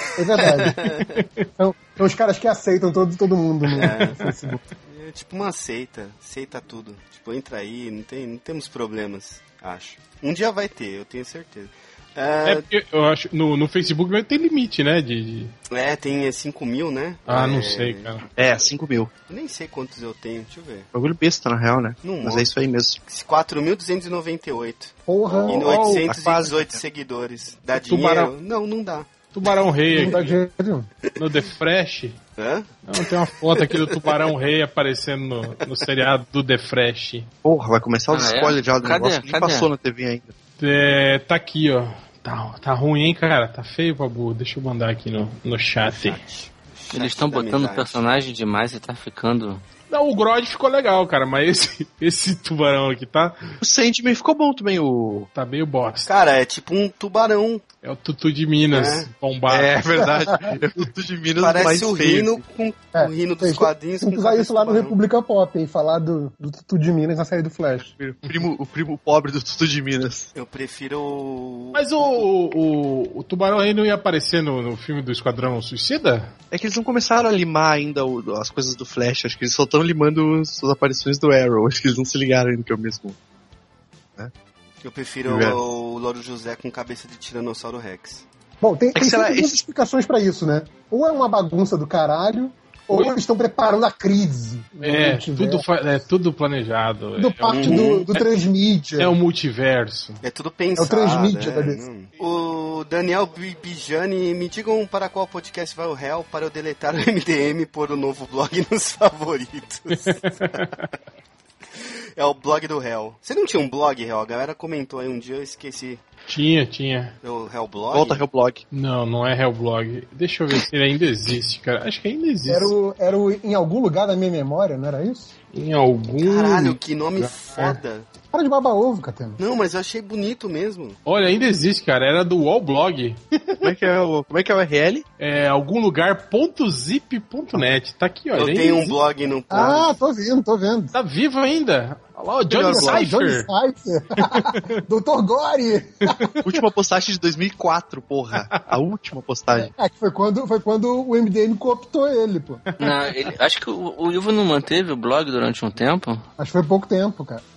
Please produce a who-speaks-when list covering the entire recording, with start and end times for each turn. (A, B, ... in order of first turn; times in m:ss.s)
0:00.2-0:00.8 A
0:00.4-0:01.1 B
0:01.2-0:01.4 C
0:01.6-0:04.6 A
0:03.7-0:04.2 B
0:04.9-0:12.6 B
0:12.4-0:15.5 C
0:15.7-0:18.1 B
0:17.3-0:18.2 C
0:18.4-0:19.1 D
0:19.3-0:20.9 B
0:20.9-0:23.0 D
0:22.0-0:22.5 B
0:23.1-0:29.5 B
0:25.0-0:26.0 A
0:25.5-0:26.0 C
0:25.9-0:26.8 D
0:27.8-0:28.3 C
0:29.3-0:30.4 C
0:29.9-0:30.9 A
0:31.2-0:32.2 C
0:32.4-0:32.7 B
0:32.8-0:37.3 C
0:33.5-0:34.3 B
0:37.4-0:40.3 D
0:38.1-0:39.7 E
0:40.6-0:46.2 C
0:45.8-0:48.0 B
0:46.9-0:49.6 E
0:49.9-0:53.4 C
0:53.6-0:55.3 D
0:55.3-0:56.1 C
0:56.1-0:57.6 B
0:57.8-1:00.1 C
0:58.7-0:59.1 B
0:59.5-1:02.4 D
1:00.0-1:00.5 A
1:01.4-1:05.0 B
1:02.9-1:07.9 A
1:07.8-1:10.3 D
1:10.3-1:12.2 B
1:11.7-1:16.3 C
1:16.5-1:23.2 D
1:24.8-1:28.2 B
1:25.2-1:25.6 D
1:28.6-1:35.6 A
1:28.9-1:29.6 D
1:32.9-1:33.2 C
1:34.8-1:38.2 C
1:37.2-1:39.1 A
1:37.5-1:38.1 B
1:39.0-1:40.2 C
1:40.2-1:50.3 B
1:40.8-1:41.8 A
1:50.0-1:50.7 C
1:51.8-1:56.0 B
1:56.2-1:57.1 C
1:57.2-1:58.2 B
1:57.9-1:58.6 D
1:58.7-2:02.7 C
2:02.5-2:05.3 A
2:05.5-2:06.8 C
2:06.2-2:08.1 B
2:07.5-2:07.8 A
2:08.3-2:09.4 A
2:09.4-2:11.0 B
2:11.0-2:13.7 C
2:13.6-2:15.0 D
2:15.2-2:19.0 C
2:18.3-2:20.0 B
2:19.5-2:20.9 A
2:20.9-2:23.5 C
2:22.5-2:23.1 D
2:22.6-2:26.3 A
2:24.2-2:24.8 C
2:26.0-2:26.3 C
2:26.4-2:29.7 D
2:29.5-2:32.6 A
2:32.7-2:33.1 C
2:32.8-2:36.2 E
2:36.4-2:37.4 A